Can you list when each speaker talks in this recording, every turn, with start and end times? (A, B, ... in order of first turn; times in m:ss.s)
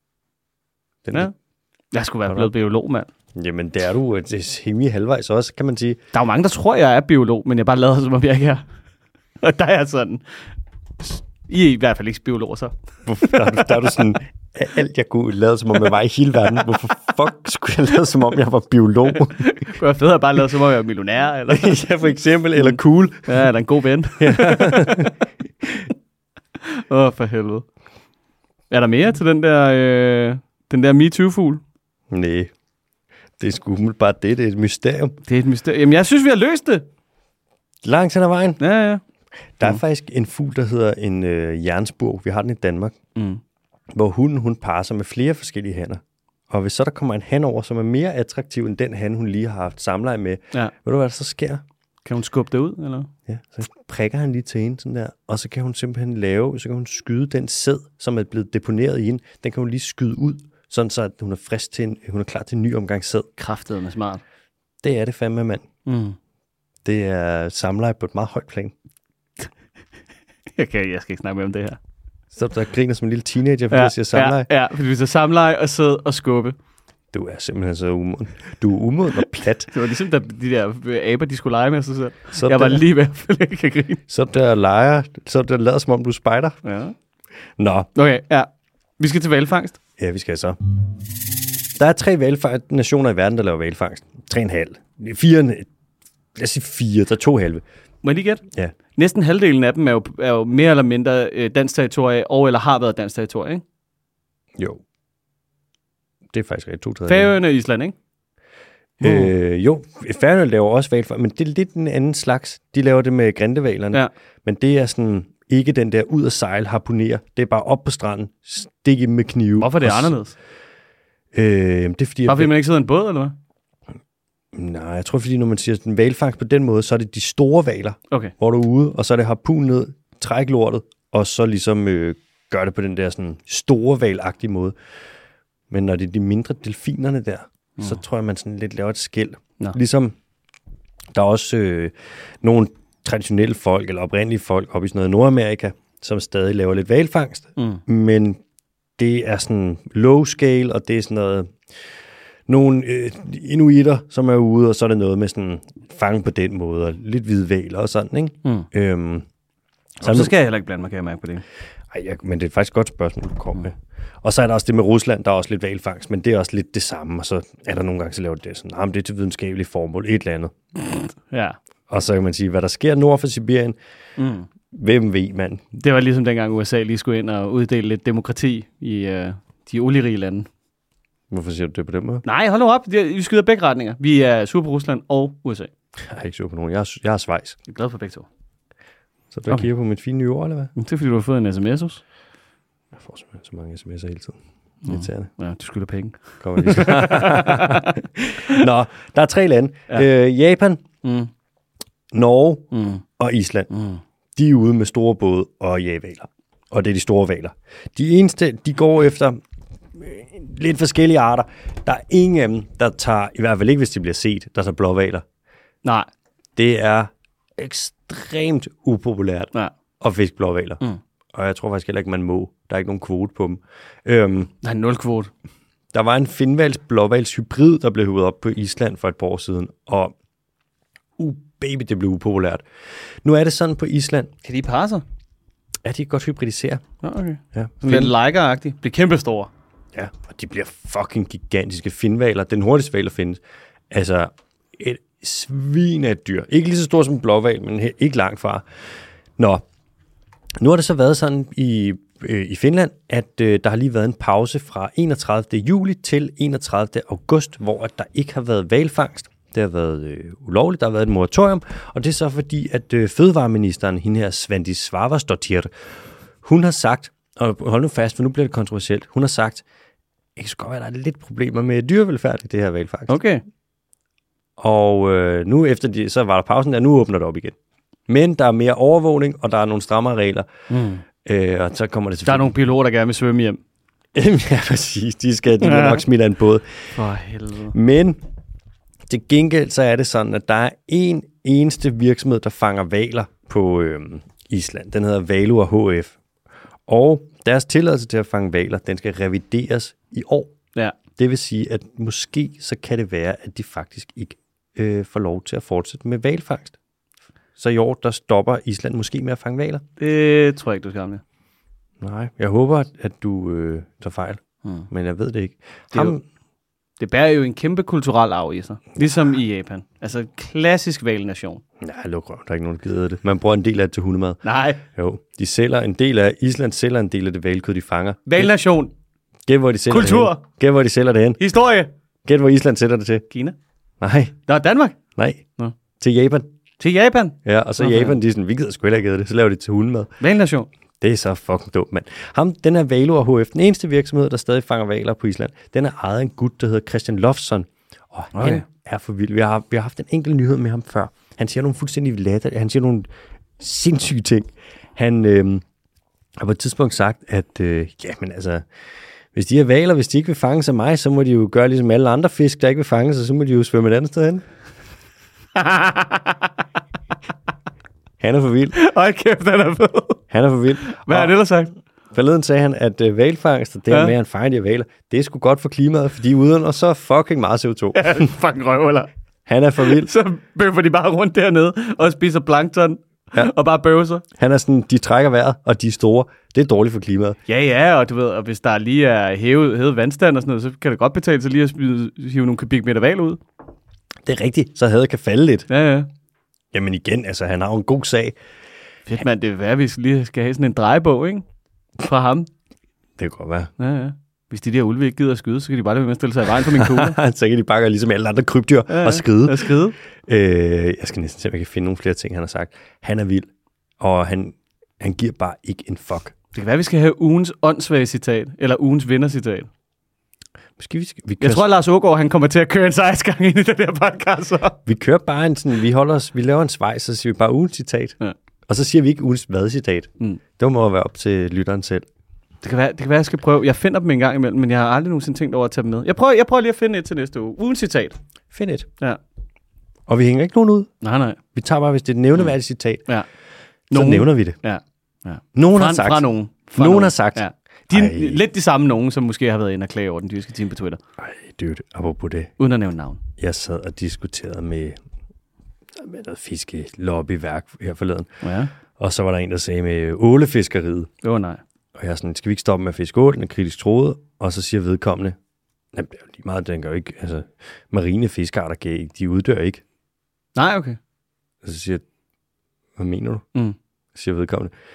0:01.0-0:01.3 A
0:01.9-0:03.1 B
0:03.4-0:06.0 A
0:06.1-0:08.6 B
0:09.4-0:10.2 B
0:11.0-0:14.0 B
0:13.1-0:19.5 A
0:19.1-0:21.9 B
0:21.5-0:23.5 A
0:22.6-0:25.1 B
0:24.2-0:25.1 A
0:26.6-0:27.6 B
0:28.7-0:31.6 B
0:32.1-0:32.5 A
0:33.4-0:35.2 A
0:35.3-0:36.8 B
0:37.8-0:38.6 A
0:38.6-0:39.0 B
0:39.6-0:43.0 A
0:43.2-0:43.4 B
0:43.9-0:51.6 A
0:52.0-0:53.1 B
0:53.3-1:03.3 A
1:03.4-1:04.2 B
1:04.8-1:05.7 A
1:05.8-1:06.2 B
1:06.8-1:08.7 A
1:10.6-1:11.8 B
1:12.3-1:14.5 A
1:13.7-1:16.6 B
1:17.1-1:19.7 A
1:19.7-1:24.0 B
1:22.3-1:22.8 A
1:24.1-1:26.6 A
1:26.6-1:26.9 B
1:27.6-1:27.9 A
1:28.0-1:28.5 B
1:29.0-1:29.8 B
1:30.0-1:30.6 A
1:31.8-1:35.7 A
1:36.4-1:37.6 A
1:38.0-1:38.4 B
1:39.0-1:43.6 B
1:46.3-1:47.4 A
1:47.1-1:48.0 B
1:49.0-1:49.3 B
1:49.0-2:00.2 A
1:59.6-2:00.3 B
2:01.3-2:02.5 A
2:02.3-2:03.4 B
2:04.5-2:14.8 A
2:15.7-2:20.2 A
2:21.1-2:28.4 A
2:27.6-2:27.8 B
2:29.0-2:31.5 A
2:32.5-2:39.3 A
2:40.0-2:40.3 A
2:40.0-2:41.4 B
2:41.9-2:50.5 A
2:50.9-2:51.6 B
2:51.9-2:53.8 A
2:54.2-2:54.5 B
2:54.7-2:55.6 A
2:55.8-3:00.5 B
3:01.3-3:02.2 A
3:02.2-3:05.7 B
3:06.0-3:07.6 A
3:07.7-3:08.3 B
3:09.3-3:10.7 A
3:10.8-3:12.0 B
3:13.0-3:15.3 A
3:14.8-3:18.6 B
3:16.4-3:20.8 A
3:21.0-3:21.3 B
3:22.1-3:23.7 A
3:22.7-3:23.0 B
3:23.7-3:24.0 B
3:24.4-3:29.4 A
3:29.9-3:35.2 A
3:36.6-3:40.8 A
3:41.3-3:44.5 A
3:44.6-3:45.3 B
3:45.9-3:50.1 A
3:51.2-3:52.6 A
3:53.2-3:54.3 A
3:54.4-3:55.0 B
3:55.8-3:56.8 A
3:57.0-3:59.5 B
3:57.5-3:58.2 A
3:59.9-4:08.6 A
4:09.4-4:09.6 A
4:10.6-4:25.7 A
4:26.4-4:29.6 A
4:30.4-4:33.2 A
4:33.1-4:33.4 B
4:34.6-4:37.6 A
4:38.1-4:40.5 A
4:40.7-4:41.0 B
4:41.2-4:42.6 A
4:42.2-4:43.6 B
4:44.2-4:46.9 A
4:45.6-4:46.0 B
4:47.0-4:47.8 B
4:47.7-4:48.2 A
4:49.1-4:56.2 A
4:56.9-5:00.5 A
5:01.2-5:06.8 A
5:07.6-5:09.8 A
5:10.0-5:11.2 B
5:12.0-5:16.2 A
5:17.0-5:21.6 B
5:21.8-5:28.5 A
5:24.4-5:24.8 B
5:28.3-5:28.9 B
5:29.5-5:31.4 A
5:29.9-5:30.4 B
5:31.4-5:31.9 B
5:32.2-5:33.3 A
5:33.3-5:33.6 B
5:34.0-5:34.4 A
5:34.5-5:35.0 B
5:35.2-5:35.4 A
5:36.0-5:36.5 A
5:36.8-5:38.2 B
5:37.4-5:40.1 A
5:40.2-5:40.7 B
5:41.0-5:53.1 A
5:48.4-5:48.6 B
5:53.6-5:55.6 A
5:56.4-5:58.6 A
5:59.3-6:04.4 A
6:05.6-6:06.5 B
6:08.2-6:08.8 A
6:08.7-6:10.2 B
6:10.3-6:11.4 A
6:10.8-6:11.7 B
6:12.1-6:18.3 A
6:17.9-6:19.1 B
6:19.5-6:20.1 A
6:19.8-6:24.2 B
6:24.4-6:27.4 A
6:27.5-6:33.4 B
6:34.2-6:35.7 A
6:35.7-6:36.1 B
6:36.7-6:38.4 A
6:39.1-6:41.4 B
6:42.0-6:42.5 B
6:43.2-6:43.7 A
6:43.8-6:47.2 B
6:46.6-6:53.5 A
6:48.9-6:50.0 B
6:54.0-6:56.4 A
6:56.5-6:59.7 B
7:00.8-7:01.7 A
7:01.4-7:04.8 B
7:04.9-7:08.2 A
7:08.7-7:12.1 A
7:12.6-7:18.2 B
7:18.5-7:18.9 A
7:20.1-7:20.9 A
7:21.0-7:21.4 B
7:21.5-7:23.0 A
7:23.9-7:24.6 A
7:23.9-7:31.0 B
7:25.6-7:28.4 A
7:31.2-7:32.5 A
7:32.6-7:33.2 B
7:33.4-7:35.0 A
7:36.0-7:38.4 A
7:38.4-7:38.7 B
7:39.0-7:41.1 A
7:41.2-7:41.6 B
7:42.0-7:45.4 A
7:45.9-7:49.8 A
7:50.6-7:51.0 B
7:51.6-7:52.0 A
7:53.0-7:53.4 A
7:54.2-7:54.7 A